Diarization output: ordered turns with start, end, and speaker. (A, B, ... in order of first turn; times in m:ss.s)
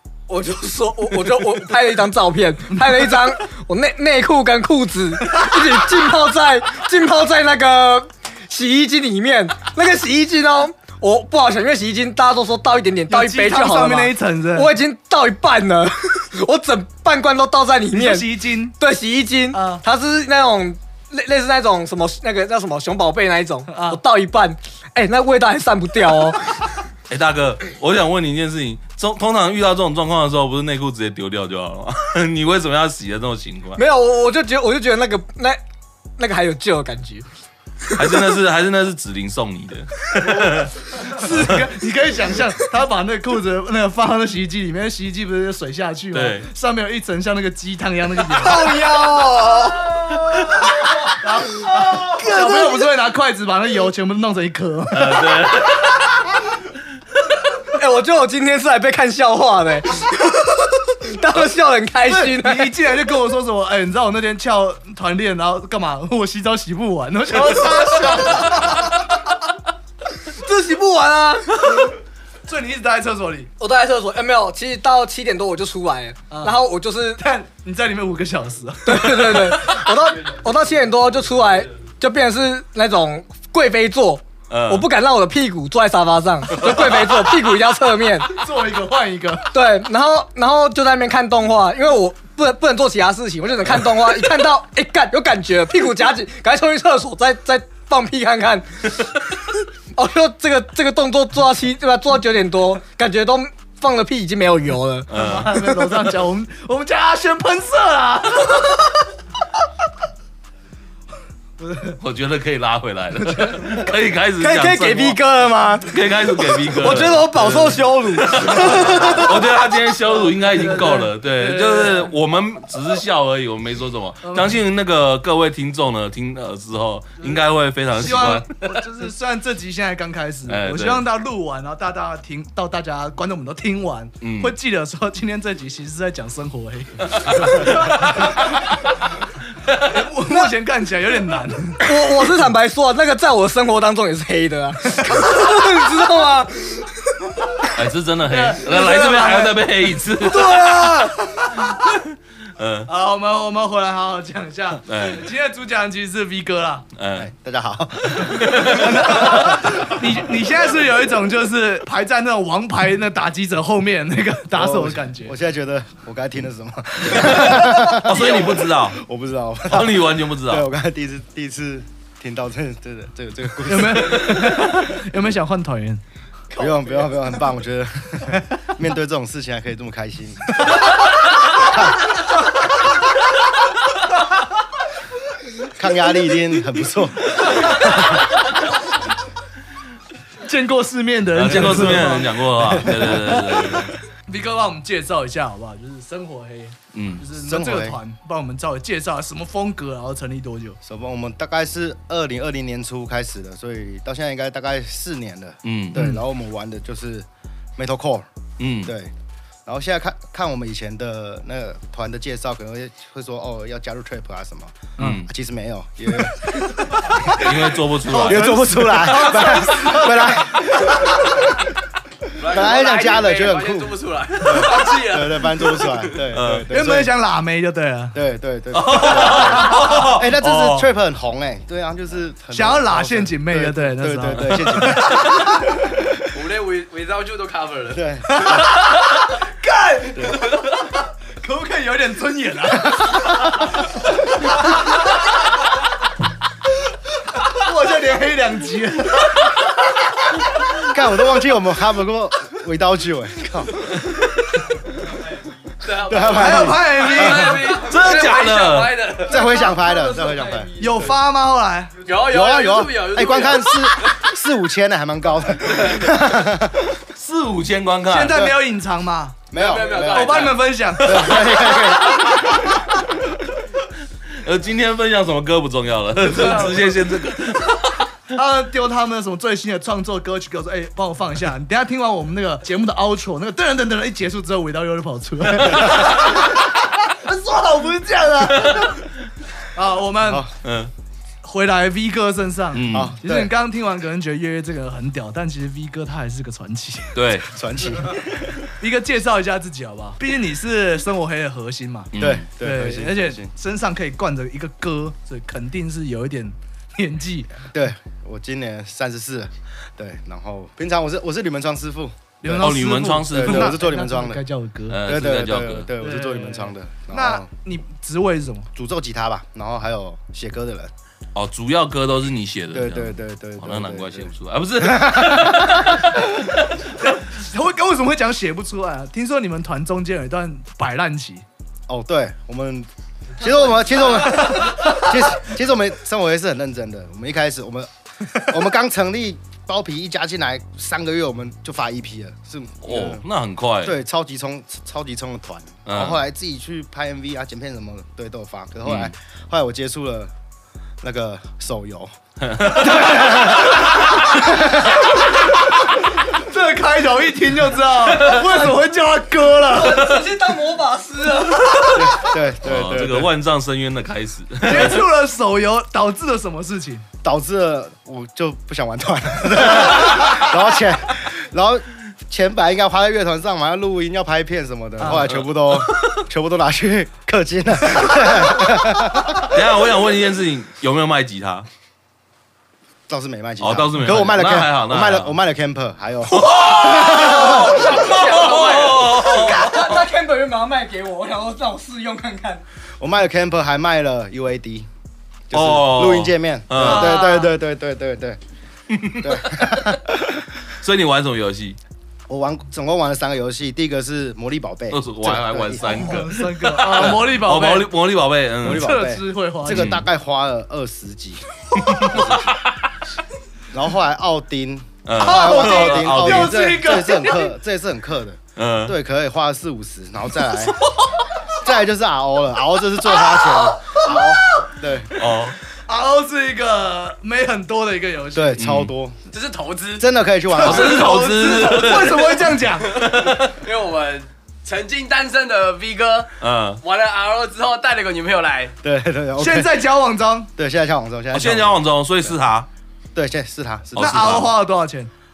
0:00.3-0:26.6 A
0:02.8-0:03.2 B
0:05.3-0:05.6 B
0:13.1-0:14.8 B
0:17.9-0:18.8 B
0:19.5-0:19.8 B
0:23.7-0:24.0 B
0:27.1-0:33.8 C
0:33.8-0:35.6 A
0:36.2-0:37.2 A
0:37.9-0:40.7 C
0:40.4-0:48.7 B
0:41.2-0:41.6 C
0:46.1-0:46.5 C
0:48.3-0:50.4 A
0:51.2-0:55.5 B
0:52.1-0:52.9 A
0:54.9-0:55.9 C
0:57.7-1:02.7 A
1:02.1-1:09.1 B
1:10.3-1:11.8 A
1:12.4-1:13.5 B
1:13.6-1:17.2 A
1:16.3-1:16.6 B
1:17.2-1:19.8 B
1:18.8-1:28.4 A
1:24.5-1:24.8 C
1:28.3-1:29.5 B
1:29.5-1:39.1 A
1:39.9-1:45.9 A
1:45.1-1:45.6 C
1:45.1-1:48.7 B
1:51.6-1:52.0 B
1:52.0-1:55.2 C
1:53.2-1:53.6 B
1:54.4-1:55.9 A
1:55.8-2:08.9 C
1:56.6-1:59.3 A
2:00.1-2:02.1 B
2:04.2-2:04.6 B
2:08.0-2:18.8 B
2:10.4-2:11.1 C
2:14.2-2:14.6 C
2:17.2-2:18.5 C
2:19.8-2:21.9 B
2:21.8-2:27.2 A
2:27.7-2:30.9 C
2:28.3-2:31.8 B
2:31.7-2:32.0 C
2:32.6-2:32.9 C
2:32.9-2:36.9 B
2:34.9-2:35.3 C
2:37.0-2:37.3 C
2:37.2-2:39.5 D
2:38.3-2:39.4 C
2:38.6-2:45.3 B
2:44.5-2:54.6 D
2:47.2-2:49.0 C
2:49.7-2:50.7 C
2:53.7-2:56.0 B
2:54.1-2:54.4 C
2:56.6-3:00.9 D
3:01.5-3:02.1 D
3:05.7-3:07.9 D
3:10.4-3:20.8 B
3:11.3-3:13.9 C
3:12.6-3:12.9 D
3:16.9-3:17.2 C
3:17.3-3:18.0 D
3:20.8-3:28.3 D
3:25.6-3:26.1 C
3:26.0-3:26.2 B
3:28.6-3:28.9 C
3:28.8-3:29.1 D
3:29.7-3:41.5 D
3:35.0-3:35.3 C
3:37.2-3:40.3 B
3:37.4-3:38.6 C
3:42.4-3:46.2 E
3:42.4-3:47.1 D
3:46.3-3:46.7 C
3:46.7-3:48.2 B
3:48.1-3:55.8 D
3:48.7-3:50.9 C
3:52.5-3:55.5 B
3:54.5-3:55.0 C
3:56.3-3:58.0 E
3:57.9-3:58.7 D
3:58.3-3:59.1 B
3:59.6-4:00.4 B
4:01.4-4:03.7 B
4:04.4-4:04.8 B
4:07.5-4:09.6 B
4:10.8-4:13.9 D
4:15.8-4:20.7 E
4:16.0-4:17.5 D
4:16.3-4:17.8 B
4:17.6-4:19.1 C
4:19.2-4:20.7 D
4:20.8-4:22.1 B
4:22.0-4:24.2 E
4:22.2-4:26.9 D
4:27.2-4:28.5 C
4:28.1-4:31.6 B
4:28.3-4:28.6 D
4:29.5-4:32.7 D
4:29.5-4:30.7 E
4:31.0-4:32.5 C
4:34.4-4:38.0 C
4:36.2-4:37.0 B
4:38.3-4:49.0 B
4:45.6-4:46.0 C
4:48.5-4:48.9 C
4:49.7-4:50.4 B
4:50.2-4:50.5 D
4:50.6-4:50.9 C
4:51.4-4:57.3 B
4:52.7-4:53.2 C
4:52.9-4:53.5 D
4:57.2-4:57.5 C
4:57.5-4:58.4 D
4:58.8-5:07.7 B
5:02.1-5:02.4 C
5:02.2-5:03.5 D
5:07.7-5:12.7 D
5:12.4-5:15.0 B
5:12.6-5:13.8 C
5:13.3-5:14.4 D
5:14.9-5:15.9 C
5:15.0-5:17.5 D
5:16.0-5:18.7 B
5:18.7-5:20.9 D
5:21.3-5:26.2 C
5:22.7-5:25.9 D
5:26.9-5:31.4 B
5:31.9-5:43.2 D
5:42.8-5:44.0 C
5:43.8-5:50.3 D
5:45.9-5:46.2 C
5:48.8-5:49.1 C
5:51.0-5:55.1 D
5:52.4-5:54.3 C
5:56.2-6:00.2 B
5:58.3-5:58.7 A
5:59.7-6:02.1 A
6:01.9-6:03.3 D
6:02.6-6:05.1 C
6:04.6-6:07.1 B
6:07.2-6:19.6 D
6:15.0-6:15.3 B
6:15.3-6:16.0 C
6:19.4-6:21.7 C
6:23.1-6:27.9 D
6:23.6-6:25.3 C
6:26.3-6:30.0 C
6:27.6-6:29.2 E
6:27.7-6:32.6 A
6:33.0-6:34.9 D
6:35.5-6:38.4 D
6:35.5-6:37.2 C
6:36.8-6:37.5 A
6:38.9-6:40.0 C
6:39.2-6:40.4 D
6:40.8-6:41.8 C
6:42.3-6:46.3 D
6:44.9-6:49.0 C
6:45.9-6:47.9 B
6:46.9-6:47.2 D
6:48.6-6:52.6 D
6:48.6-6:50.0 B
6:49.7-6:50.0 C
6:51.8-6:52.5 C
6:53.7-7:00.8 D
6:55.1-6:56.7 C
6:55.2-6:57.5 B
6:58.6-6:58.9 C
7:01.5-7:05.2 D
7:03.9-7:04.7 B
7:05.2-7:05.6 C
7:05.9-7:08.6 B
7:08.3-7:09.2 D
7:08.6-7:08.9 C
7:09.3-7:10.1 E
7:10.0-7:11.1 D
7:10.5-7:13.0 B
7:10.6-7:13.5 C
7:13.0-7:16.3 E
7:16.4-7:16.8 C
7:16.8-7:18.7 E
7:18.8-7:19.9 D
7:19.4-7:20.5 B
7:20.6-7:22.4 D
7:21.3-7:22.7 C
7:23.2-7:24.5 D
7:23.9-7:24.5 C
7:24.0-7:25.1 B